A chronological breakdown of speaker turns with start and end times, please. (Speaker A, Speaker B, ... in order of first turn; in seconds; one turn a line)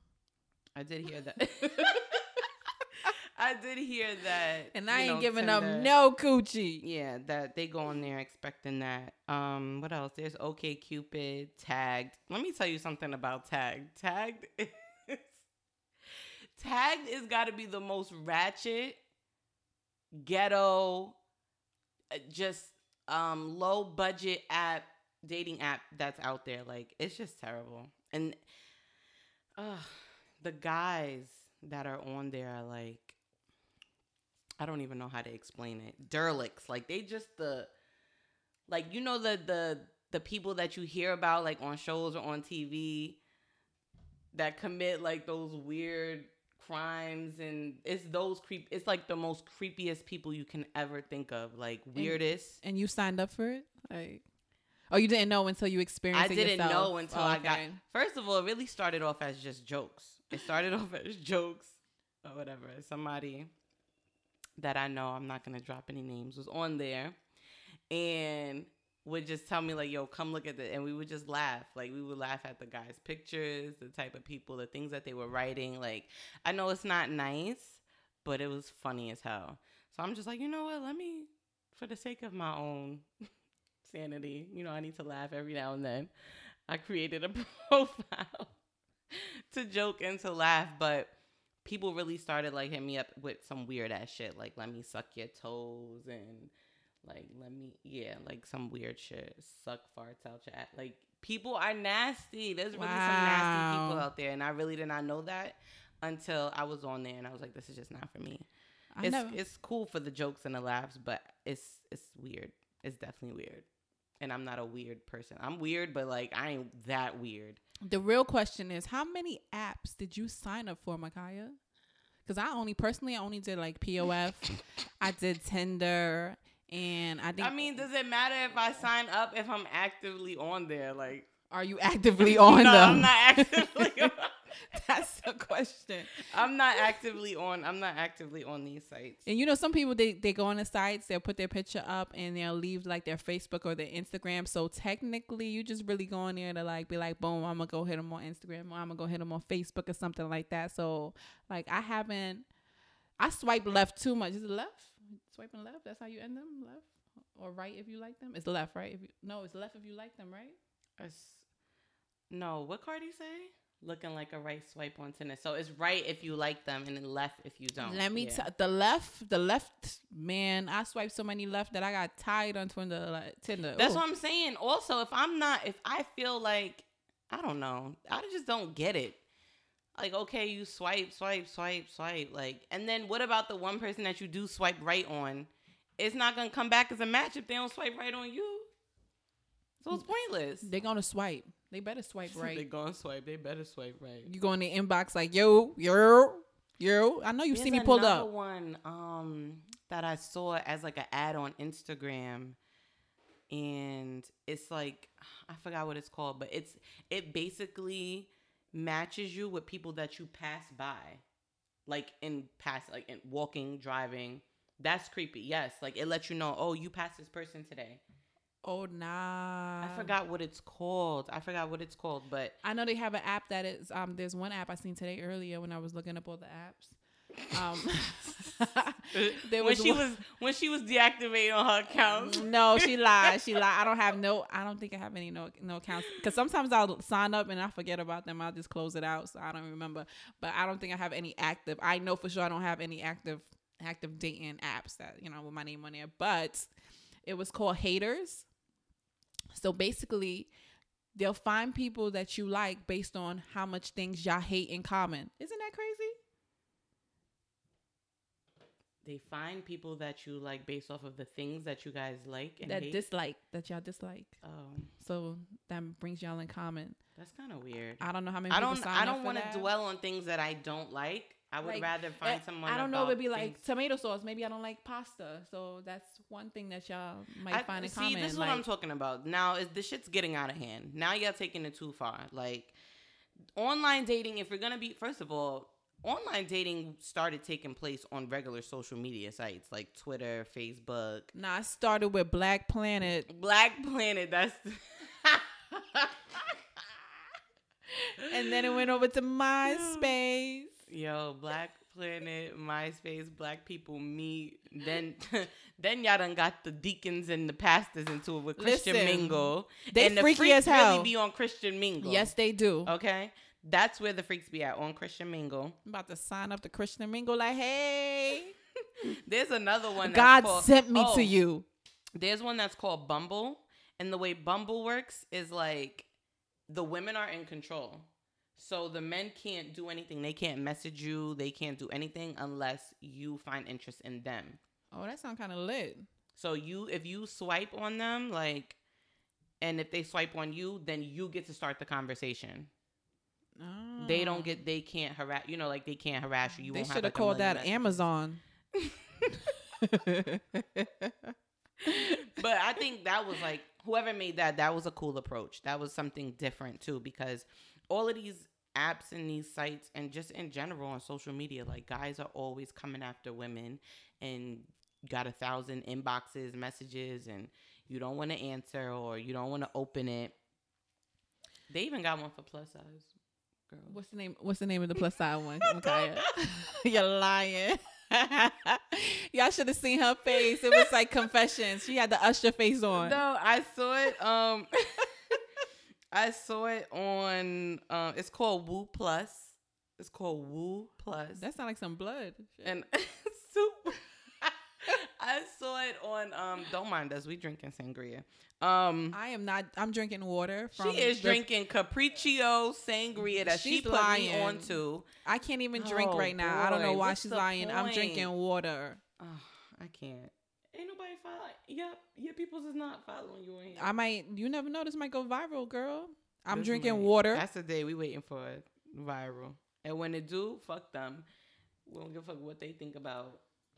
Speaker A: 0.8-2.2
Speaker B: 1.7-2.2
Speaker A: 3.0-5.9
Speaker B: 4.7-6.8
Speaker A: 6.8-15.3
Speaker A: 16.6-19.0
Speaker A: 20.1-21.2
Speaker A: 22.1-28.4
Speaker A: 29.6-33.2
Speaker A: 34.6-37.7
Speaker A: 38.7-43.2
Speaker A: 44.3-52.6
Speaker B: 52.0-54.2
Speaker B: 54.9-57.8
Speaker A: 56.1-63.5
Speaker A: 64.6-67.2
Speaker A: 67.9-83.1
Speaker A: 83.8-88.5
Speaker A: 89.1-96.5
Speaker A: 97.0-108.5
Speaker B: 102.7-104.1
Speaker B: 109.0-109.4
Speaker A: 109.0-113.7
Speaker A: 114.2-117.6
Speaker B: 117.8-121.6
Speaker B: 122.3-127.8
Speaker A: 127.4-131.3
Speaker B: 131.5-136.3
Speaker A: 132.2-134.4
Speaker A: 136.2-139.2
Speaker B: 139.3-152.5
Speaker B: 153.2-160.6
Speaker A: 161.0-161.5
Speaker A: 162.3-168.4
Speaker B: 167.8-174.0
Speaker A: 173.8-179.2
Speaker A: 179.9-188.7
Speaker A: 189.8-190.7
Speaker B: 190.6-192.7
Speaker A: 192.3-194.3
Speaker B: 194.3-198.3
Speaker A: 197.5-202.6
Speaker A: 203.5-211.2
Speaker A: 211.9-218.0
Speaker B: 218.6-220.1
Speaker A: 219.8-222.6
Speaker B: 222.6-227.0
Speaker B: 227.5-230.1
Speaker A: 229.1-233.3
Speaker B: 232.1-246.7
Speaker B: 247.2-248.5
Speaker B: 249.5-250.5
Speaker B: 251.1-256.2
Speaker A: 259.0-263.0
Speaker B: 262.6-264.4
Speaker A: 264.4-264.9
Speaker B: 265.0-267.0
Speaker A: 267.2-273.6
Speaker B: 268.0-269.7
Speaker B: 271.6-278.6
Speaker A: 277.5-282.8
Speaker A: 283.6-291.3
Speaker B: 291.3-293.3
Speaker A: 293.3-296.4
Speaker A: 298.2-298.7
Speaker B: 298.3-300.8
Speaker A: 299.6-300.1
Speaker A: 300.9-312.3
Speaker B: 308.6-311.1
Speaker B: 312.0-312.9
Speaker A: 312.9-315.8
Speaker B: 315.9-318.5
Speaker A: 319.2-321.4
Speaker B: 320.0-321.7
Speaker A: 322.2-326.1
Speaker A: 326.7-334.6
Speaker B: 334.9-336.1
Speaker A: 336.4-338.8
Speaker A: 339.6-342.7
Speaker B: 343.6-344.6
Speaker A: 344.0-348.1
Speaker B: 346.7-348.4
Speaker B: 349.8-351.3
Speaker B: 351.9-352.2
Speaker A: 351.9-370.4
Speaker A: 371.7-373.1
Speaker A: 373.7-374.0
Speaker B: 373.9-383.2
Speaker A: 375.6-376.2
Speaker A: 382.9-385.1
Speaker A: 386.1-391.4
Speaker B: 391.4-392.8
Speaker A: 392.6-399.2
Speaker B: 399.1-401.4
Speaker A: 400.8-405.1
Speaker B: 403.4-409.0
Speaker A: 405.8-408.3
Speaker A: 409.2-413.9
Speaker B: 413.8-417.4
Speaker A: 416.5-421.3
Speaker A: 421.9-423.4